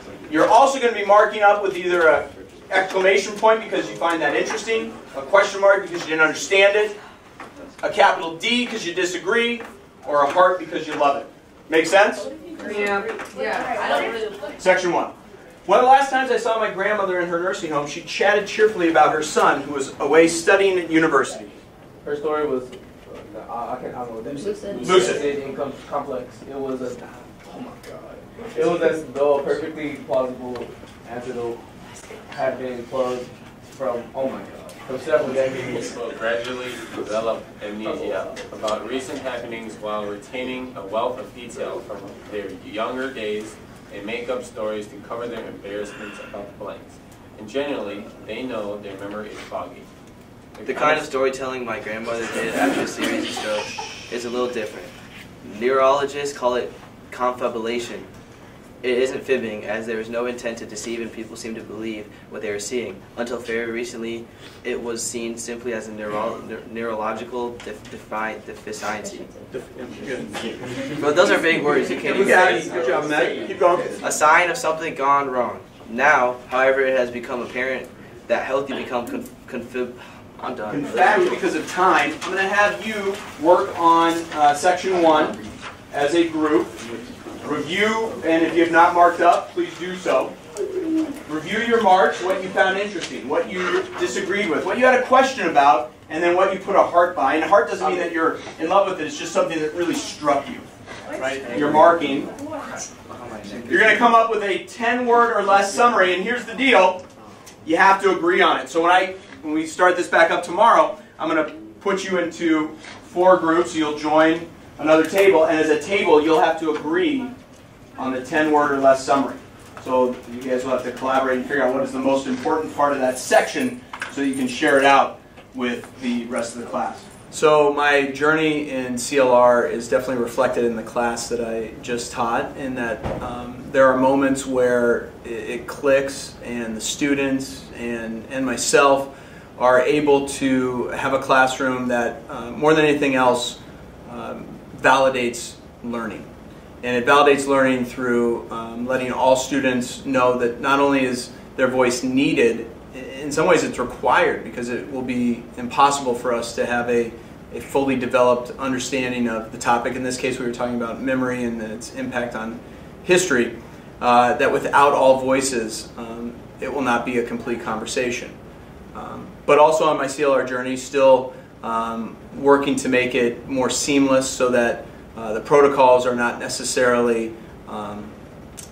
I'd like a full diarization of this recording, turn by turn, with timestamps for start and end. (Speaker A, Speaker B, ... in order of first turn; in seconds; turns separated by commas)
Speaker A: 0.3-7.0, Speaker A: 7.8-12.3, Speaker A: 14.6-15.1, Speaker A: 15.7-21.6, Speaker B: 22.0-31.6, Speaker C: 24.7-25.1, Speaker A: 24.8-25.2, Speaker B: 32.3-35.8, Speaker C: 35.5-49.9, Speaker C: 50.5-51.1, Speaker D: 50.6-54.9, Speaker D: 55.4-58.1, Speaker D: 58.8-69.3, Speaker A: 69.5-70.4, Speaker D: 71.0-73.2, Speaker B: 72.0-73.3, Speaker A: 72.1-74.0, Speaker D: 74.0-81.3, Speaker A: 80.7-85.4, Speaker A: 85.9-86.8, Speaker A: 87.4-90.3, Speaker A: 91.2-102.3, Speaker A: 103.7-107.0, Speaker A: 107.6-117.3, Speaker A: 118.0-146.3, Speaker A: 146.8-168.4, Speaker A: 168.9-178.1